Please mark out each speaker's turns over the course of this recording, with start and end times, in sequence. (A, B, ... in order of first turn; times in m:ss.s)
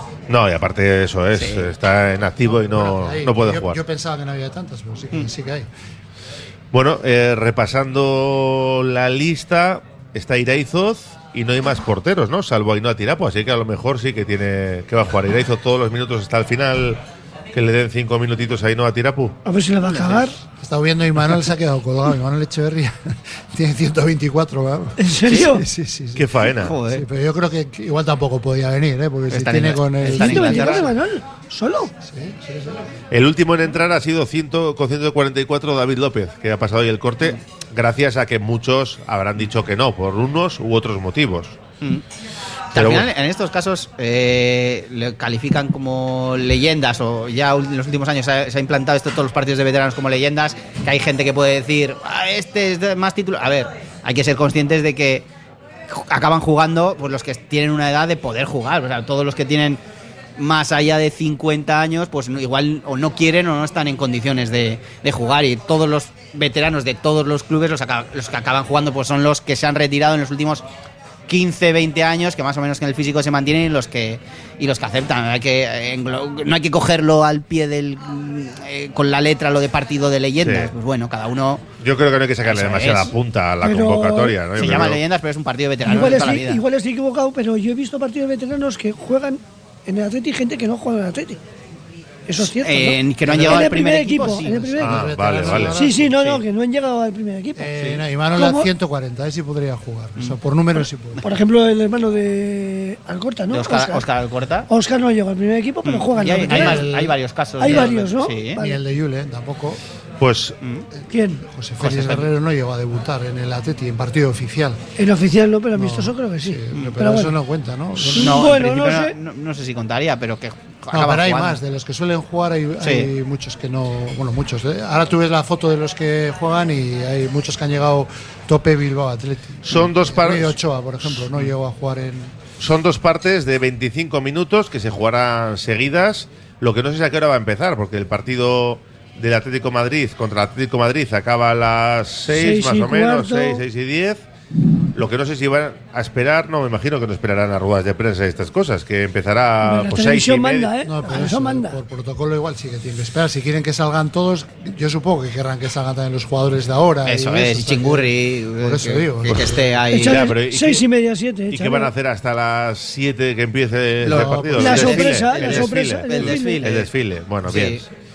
0:00.3-0:03.8 A
0:01.3-0:01.7 B
0:02.4-0:05.7 C
0:06.7-0:17.0 A
0:17.5-0:19.4 A
0:19.4-0:20.3 D
0:20.5-0:30.7 C
0:25.0-0:25.6 D
0:26.2-0:26.8 A
0:26.6-0:27.0 B
0:29.3-0:30.9 B
0:30.1-0:31.9 D
0:32.0-0:32.9 C
0:33.1-0:41.6 A
0:42.7-0:55.3 B
0:42.7-0:43.1 A
0:55.9-0:59.8 B
1:00.4-1:10.6 B
1:11.3-1:21.6 B
1:20.4-1:20.7 A
1:21.8-1:25.0 A
1:22.4-1:23.1 B
1:23.6-1:24.3 D
1:24.6-1:26.6 B
1:25.8-1:31.4 D
1:32.3-1:35.0 D
1:32.6-1:34.8 B
1:33.2-1:33.7 C
1:34.8-1:35.8 A
1:34.8-1:36.1 C
1:35.7-1:37.7 D
1:36.1-1:36.4 B
1:37.6-1:41.2 C
1:38.3-1:38.7 D
1:41.2-1:44.0 D
1:43.5-1:44.7 B
1:44.7-1:46.9 D
1:45.8-1:48.6 B
1:46.4-1:47.1 C
1:47.6-1:48.8 D
1:48.6-1:49.8 C
1:50.2-1:50.6 A
1:51.1-1:51.4 D
1:51.3-1:54.8 C
1:51.8-1:52.3 B
1:55.0-1:57.3 D
1:55.7-1:58.5 C
1:58.1-1:59.1 D
1:58.1-2:01.6 B
2:00.9-2:12.4 C
2:02.8-2:03.1 B
2:09.6-2:10.6 A
2:12.6-2:24.2 A
2:22.3-2:23.6 D
2:24.9-2:30.7 A
2:29.6-2:31.8 D
2:30.8-2:39.8 C
2:37.0-2:40.3 B
2:39.9-2:41.9 D
2:40.0-2:40.8 A
2:41.5-2:47.9 A
2:44.0-2:45.0 C
2:44.1-2:46.9 B
2:44.6-2:46.7 D
2:47.4-2:47.8 B